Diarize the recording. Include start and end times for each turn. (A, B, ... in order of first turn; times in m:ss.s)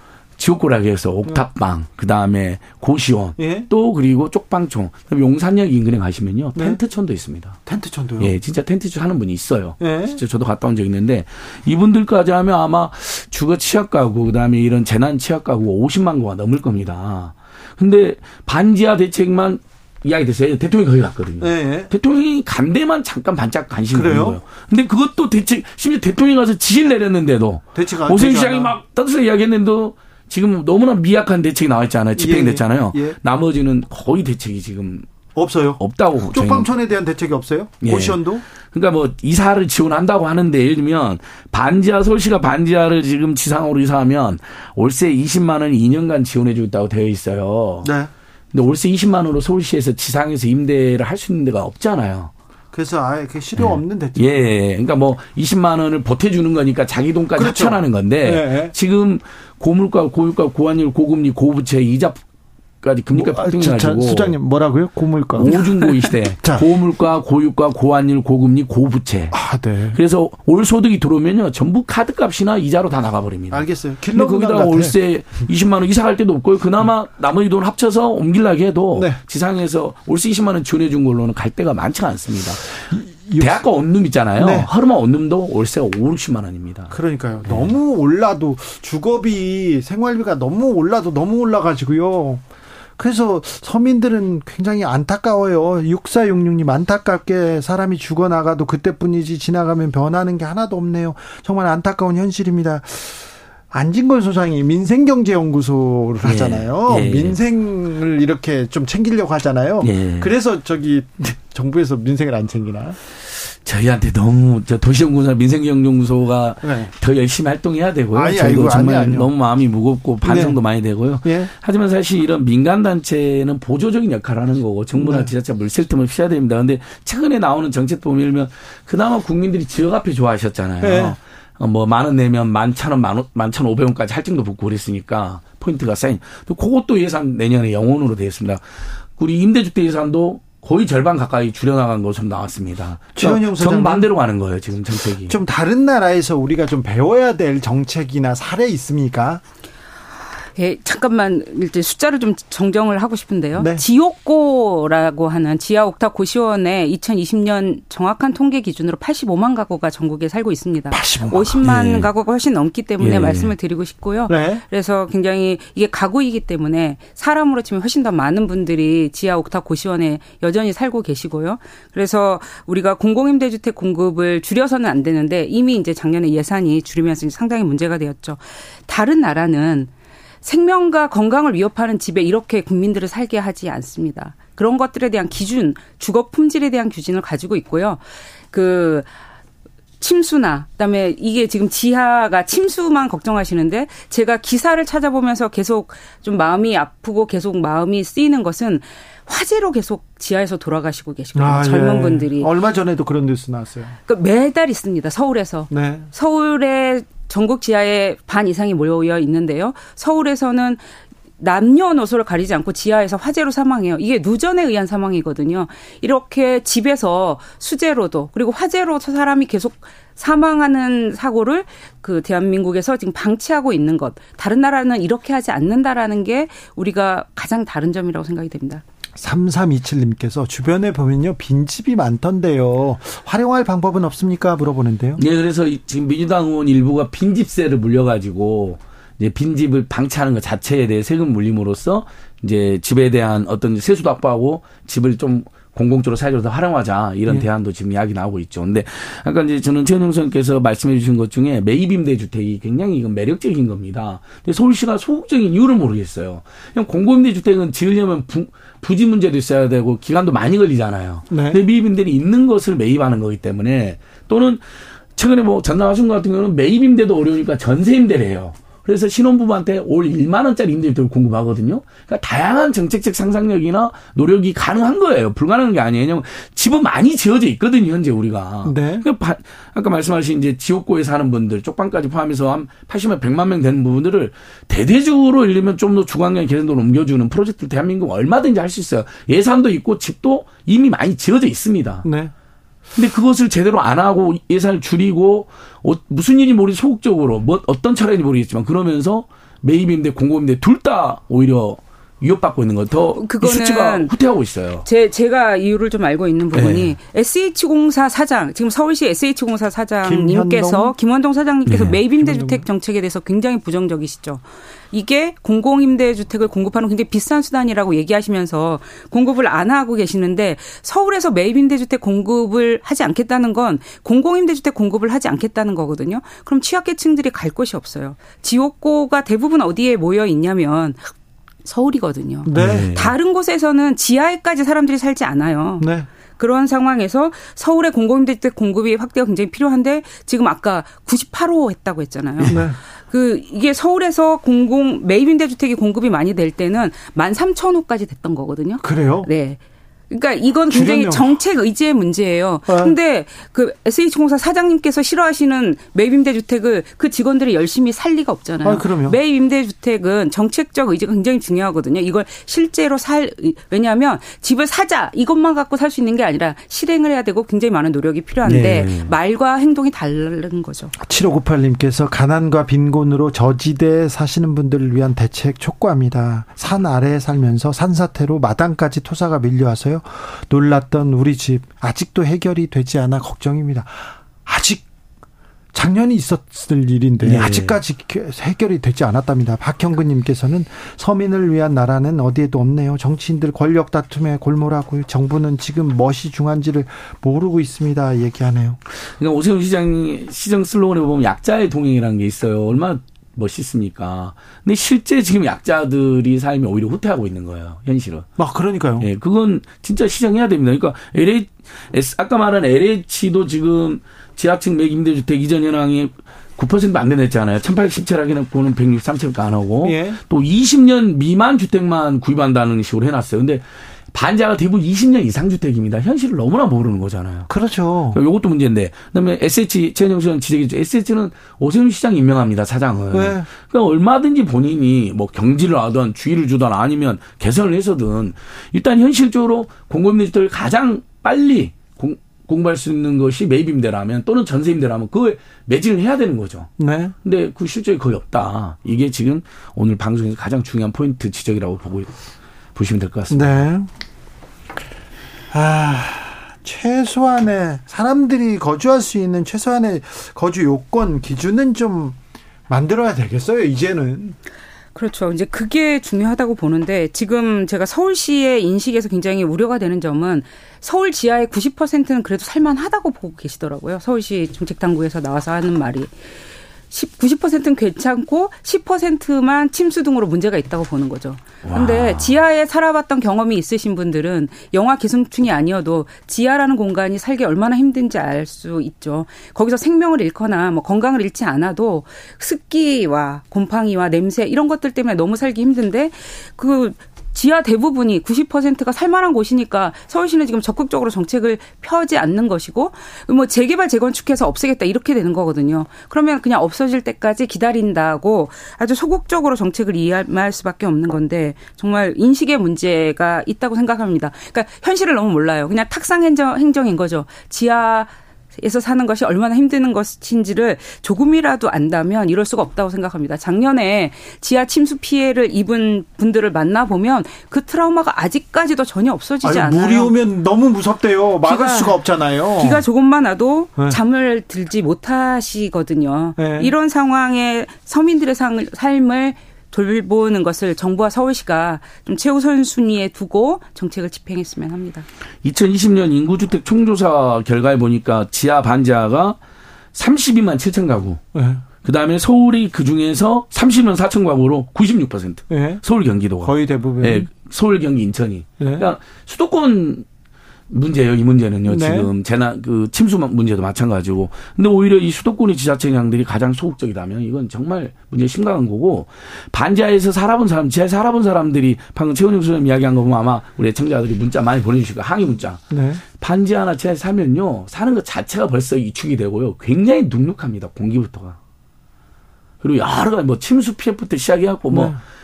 0:00.4-0:07.6 A
0:03.4-0:03.7 B
0:06.6-0:06.8 B
0:07.7-0:08.3 B
0:08.2-0:35.1 A
0:09.8-0:10.2 B
0:21.4-0:21.9 B
0:23.9-0:24.4 B
0:27.8-0:28.8 B
0:32.2-0:33.2 B
0:35.4-0:38.4 B
0:35.8-0:36.7 A
0:37.8-0:47.9 A
0:47.8-0:48.1 B
0:48.5-0:52.3 A
0:52.7-0:54.4 B
0:53.6-1:02.2 A
0:57.4-0:58.7 B
1:02.8-1:04.4 A
1:03.1-1:05.6 B
1:05.4-1:09.4 A
1:05.8-1:06.1 C
1:09.3-1:10.0 B
1:09.9-1:27.0 A
1:13.5-1:15.0 B
1:22.9-1:23.6 B
1:24.4-1:24.7 B
1:26.9-1:32.4 B
1:27.5-1:27.7 A
1:33.0-1:53.0 B
1:46.2-1:47.4 A
1:49.8-1:50.3 A
1:53.6-2:18.6 A
1:56.6-1:56.9 B
1:58.1-1:59.3 B
2:00.2-2:00.6 B
2:01.2-2:01.5 B
2:05.0-2:05.3 B
2:10.8-2:11.2 B
2:19.2-2:25.4 A
2:23.2-2:24.1 B
2:25.2-2:29.4 B
2:30.6-2:59.9 C
2:33.6-2:33.8 B
2:40.9-2:41.8 B
2:41.6-2:42.1 A
2:43.0-2:43.5 A
2:44.3-2:44.6 B
3:00.4-3:09.1 C
3:10.0-3:22.5 C
3:21.4-3:24.0 B
3:24.1-3:30.8 C
3:25.7-3:26.1 B
3:31.4-3:48.8 C
3:49.2-3:55.2 B
3:55.2-4:24.6 A
4:21.3-4:21.6 B
4:25.2-4:52.1 A
4:38.6-4:39.1 B
4:52.0-4:52.3 B
4:53.0-5:04.9 A
5:03.2-5:04.1 C
5:04.8-5:31.1 C
5:06.5-5:07.0 A
5:10.0-5:10.9 B
5:11.7-5:12.0 A
5:12.2-5:12.6 B
5:31.6-6:10.9 C
5:32.4-5:32.9 B
5:32.5-5:33.2 A
5:35.8-5:36.1 B
5:42.4-5:42.7 A
5:42.5-5:42.8 B
5:48.8-5:49.3 B
5:50.7-5:51.4 B
5:52.7-5:52.9 B
5:58.6-5:59.2 B
6:08.4-6:09.1 A
6:11.0-6:24.8 B
6:25.7-6:38.8 B
6:27.2-6:27.8 A
6:39.1-6:48.3 A
6:48.4-6:49.1 B
6:49.0-7:07.5 A
6:59.8-7:00.2 B
7:07.5-7:08.2 B
7:08.1-7:26.7 A
7:13.1-7:13.5 B
7:26.8-7:27.1 B
7:27.2-7:32.1 A
7:32.8-7:33.6 A
7:33.3-7:33.9 B
7:35.5-7:42.2 B
7:42.7-7:44.4 B
7:45.0-7:56.1 C
7:56.9-8:50.1 C
8:01.6-8:02.3 A
8:49.4-8:52.8 B
8:51.4-8:52.0 C
8:52.6-9:05.1 C
8:56.4-8:56.7 B
9:05.4-9:09.4 A
9:09.9-9:11.2 A
9:11.3-9:11.6 B
9:11.8-9:20.0 A
9:15.5-9:15.8 B
9:16.4-9:17.3 B
9:18.6-9:18.8 B
9:20.7-9:35.6 A
9:21.7-9:22.1 B
9:35.7-9:36.0 B
9:36.2-9:41.4 A
9:42.6-9:45.0 A
9:44.7-9:45.0 B